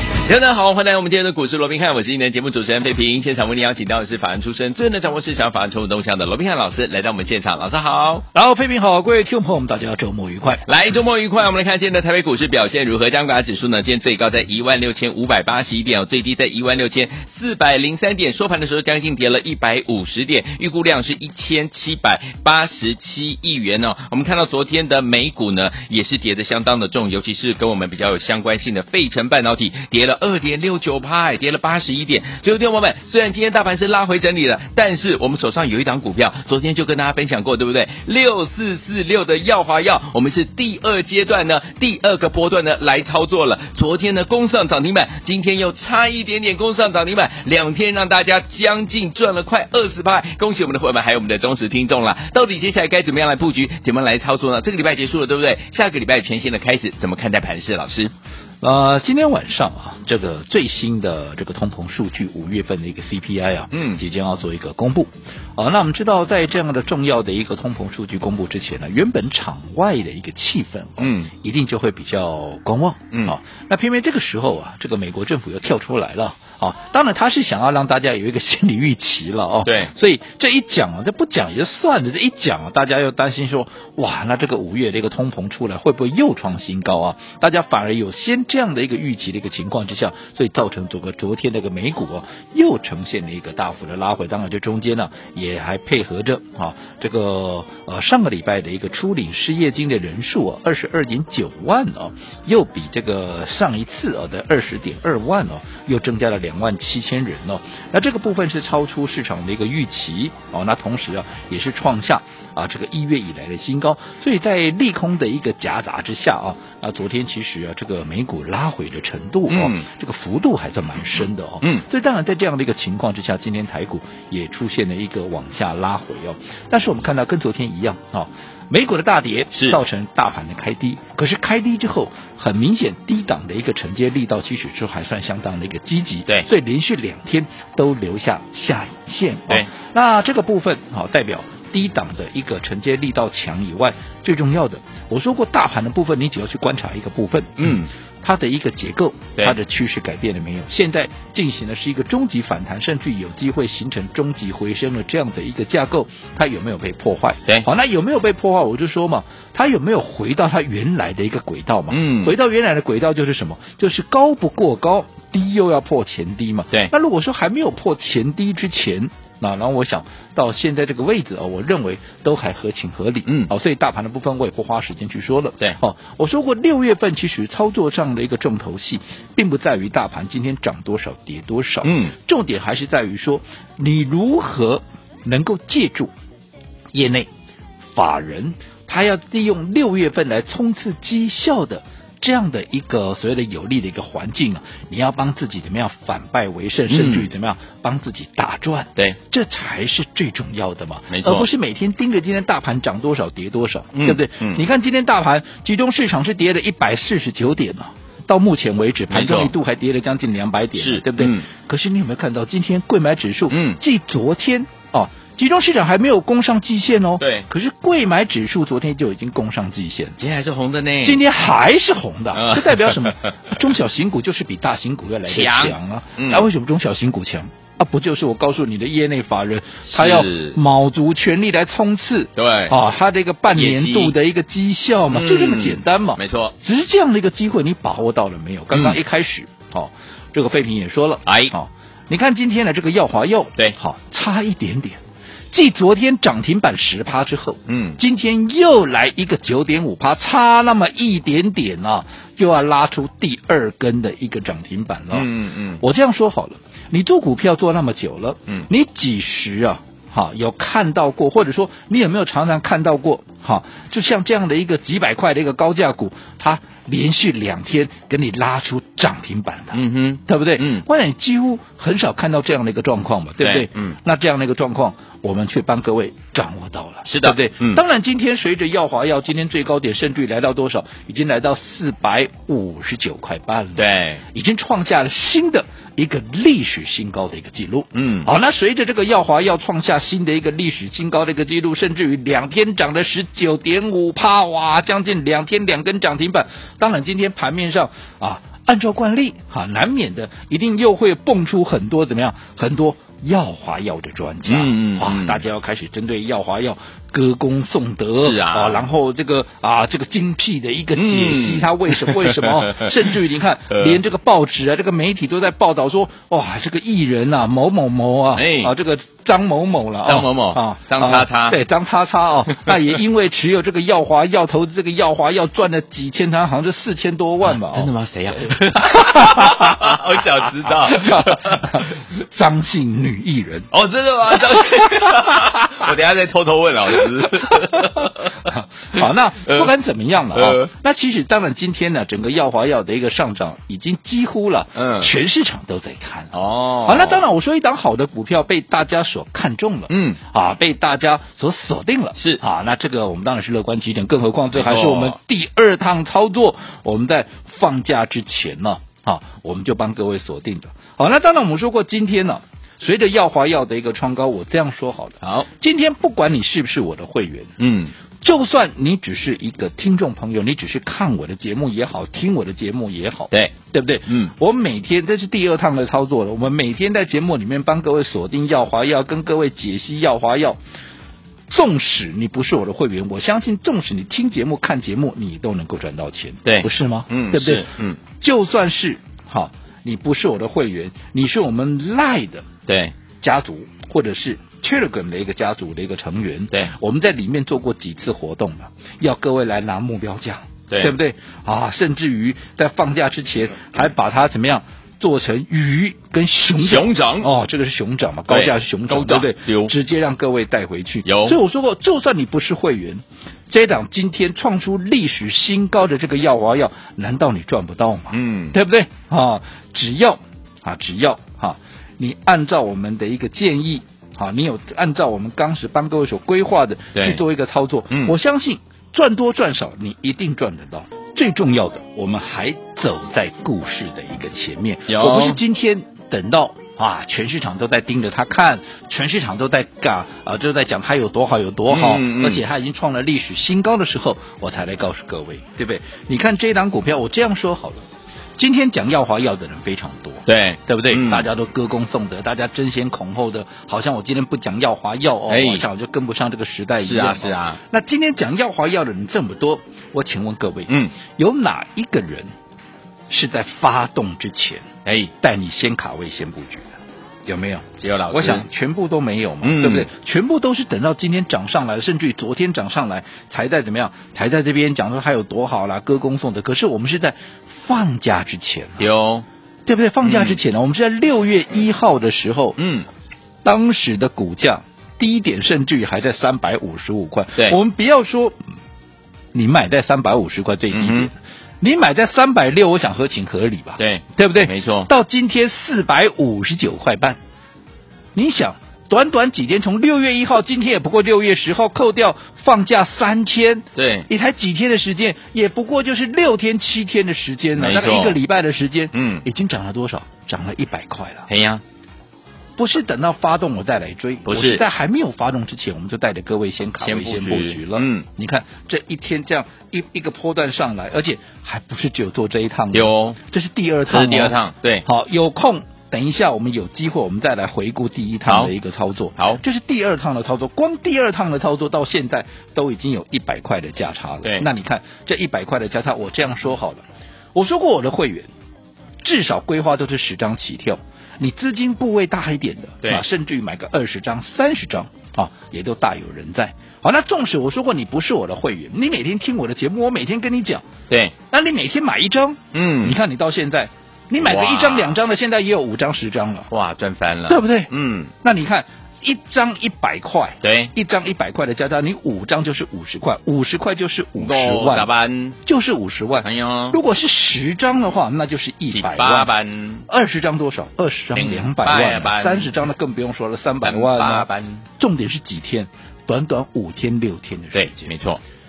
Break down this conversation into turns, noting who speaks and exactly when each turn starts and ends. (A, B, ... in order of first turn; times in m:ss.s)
0:00.2-0:08.2 A
0:08.3-0:10.6 B
0:10.6-0:58.1 A
0:58.6-3:06.1 B
1:03.7-1:04.0 A
1:11.0-1:11.3 A
1:19.6-1:19.9 A
1:59.5-1:59.9 A
2:09.5-2:09.8 A
2:27.6-2:27.9 A
2:41.9-2:42.3 A
2:53.3-2:53.5 A
3:01.8-3:02.1 A
3:06.9-3:07.3 B
3:07.9-3:40.2 B
3:16.9-3:17.3 A
3:21.1-3:21.5 A
3:23.9-3:24.6 A
3:29.1-3:29.5 A
3:30.8-3:31.5 A
3:33.5-3:33.8 A
3:37.2-3:37.5 A
3:40.2-3:41.2 A
3:41.0-4:05.0 B
3:42.3-3:43.3 A
3:45.3-3:46.5 A
3:49.9-3:50.6 A
3:52.4-3:52.8 A
3:53.5-3:54.2 A
3:55.1-3:56.5 A
3:58.7-3:59.0 A
4:01.3-4:01.5 A
4:05.5-4:15.3 B
4:07.7-4:08.0 A
4:15.1-4:15.8 A
4:15.8-5:27.9 B
4:29.7-4:30.8 A
4:33.4-4:34.0 A
4:37.1-4:37.8 A
4:43.8-4:44.2 A
4:47.9-4:48.3 A
5:04.5-5:05.4 A
5:08.2-5:08.8 A
5:11.0-5:13.1 A
5:13.7-5:14.0 A
5:18.4-5:18.7 A
5:20.0-5:21.6 A
5:22.5-5:22.8 A
5:27.4-5:31.8 A
5:28.5-5:30.0 B
5:30.7-5:33.7 B
5:33.7-5:38.5 A
5:37.5-5:46.3 B
5:40.3-5:40.7 A
5:44.8-5:45.1 A
5:46.3-5:47.2 A
5:46.8-6:07.5 B
5:49.9-5:50.2 A
5:52.2-5:52.4 A
5:54.5-5:55.2 A
6:05.2-6:05.5 A
6:07.6-6:07.9 A
6:08.2-6:20.6 B
6:14.1-6:14.3 A
6:21.5-6:32.5 B
6:26.4-6:28.0 A
6:32.7-6:33.0 A
6:33.2-7:27.8 B
6:40.7-6:41.0 A
6:46.6-6:47.3 A
6:48.3-6:49.7 A
6:51.0-6:51.4 A
6:58.1-6:58.6 A
7:07.0-7:07.2 A
7:07.9-7:08.2 A
7:14.9-7:15.4 A
7:21.7-7:22.4 A
7:28.4-7:42.3 B
7:30.3-7:31.3 A
7:35.3-7:35.6 A
7:36.8-7:37.6 A
7:40.7-7:41.0 A
7:43.1-7:44.7 B
7:44.9-7:45.1 A
7:45.2-7:46.7 B
7:47.3-7:58.9 B
7:47.8-7:48.5 A
7:49.4-7:49.9 A
7:58.8-7:59.3 A
7:59.7-8:02.6 B
8:00.0-8:00.4 A
8:02.6-8:02.9 A
8:03.4-8:08.4 B
8:09.3-8:17.2 B
8:10.7-8:11.1 A
8:13.8-8:14.9 A
8:18.2-8:31.3 B
8:23.8-8:24.1 A
8:27.6-8:28.2 A
8:28.9-8:29.3 A
8:31.3-8:31.6 A
8:32.6-8:56.8 B
8:34.3-8:34.6 A
8:36.8-8:38.1 A
8:42.7-8:43.2 A
8:43.9-8:44.8 A
8:48.3-8:48.5 A
8:49.2-8:49.4 A
8:57.4-8:58.3 B
8:59.0-9:10.6 B
9:10.9-9:11.1 A
9:11.3-9:16.5 B
9:12.5-9:13.0 A
9:14.2-9:15.0 A
9:16.5-9:18.1 A
9:17.3-9:17.7 B
9:18.2-9:24.9 B
9:20.4-9:20.7 A
9:24.2-9:25.4 A
9:25.4-9:29.3 B
9:26.2-9:26.8 A
9:28.7-9:29.8 A
9:29.9-9:34.3 B
9:31.2-9:32.5 A
9:33.6-9:34.7 A
9:34.8-9:37.9 B
9:37.5-9:38.2 A